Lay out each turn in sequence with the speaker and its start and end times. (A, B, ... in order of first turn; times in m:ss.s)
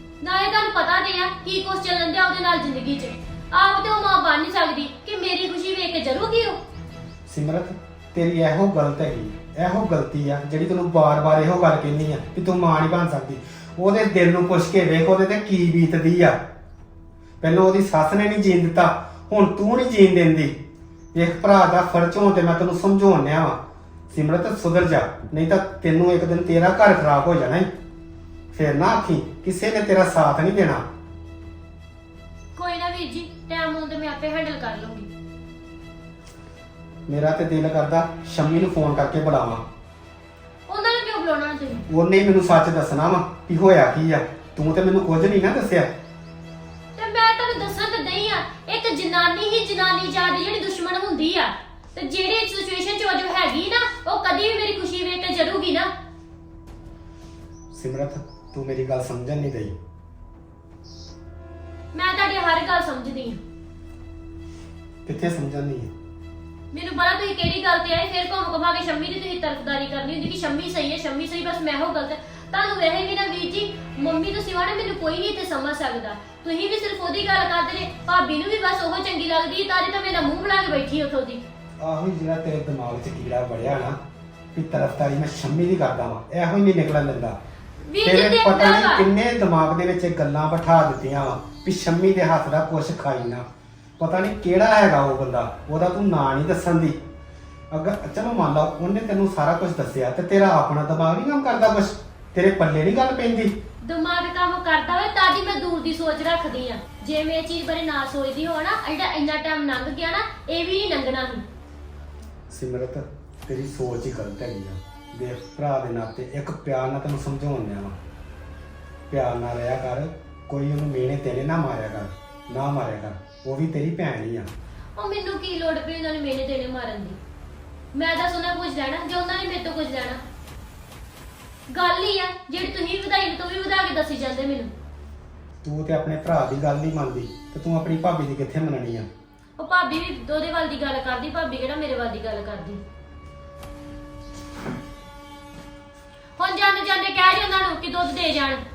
0:00.2-0:06.6 A
0:07.3-0:16.4 B
0:17.4-0:20.6 B
0:21.1-0:27.7 B
0:28.5-0:30.9 B
0:32.6-0:35.1 A
0:37.1-0:39.6 B
0:40.7-0:41.9 A
0:41.9-0:45.9 B
0:47.0-0:55.9 A
0:57.7-0:59.8 B
1:01.9-1:03.4 A
1:05.0-1:05.9 B
1:06.7-1:21.4 A
1:21.8-1:24.0 B
1:24.5-1:27.4 B
1:27.9-1:29.1 A
1:28.0-1:33.4 B
1:34.0-1:37.0 B
1:37.7-1:43.6 B
1:43.8-1:51.4 A
1:52.5-1:58.0 B
1:59.1-2:04.5 B
2:05.0-2:07.2 A
2:07.9-2:10.2 A
2:11.7-2:14.7 A
2:15.6-2:19.1 B
2:19.6-2:22.8 A
2:26.4-2:28.6 A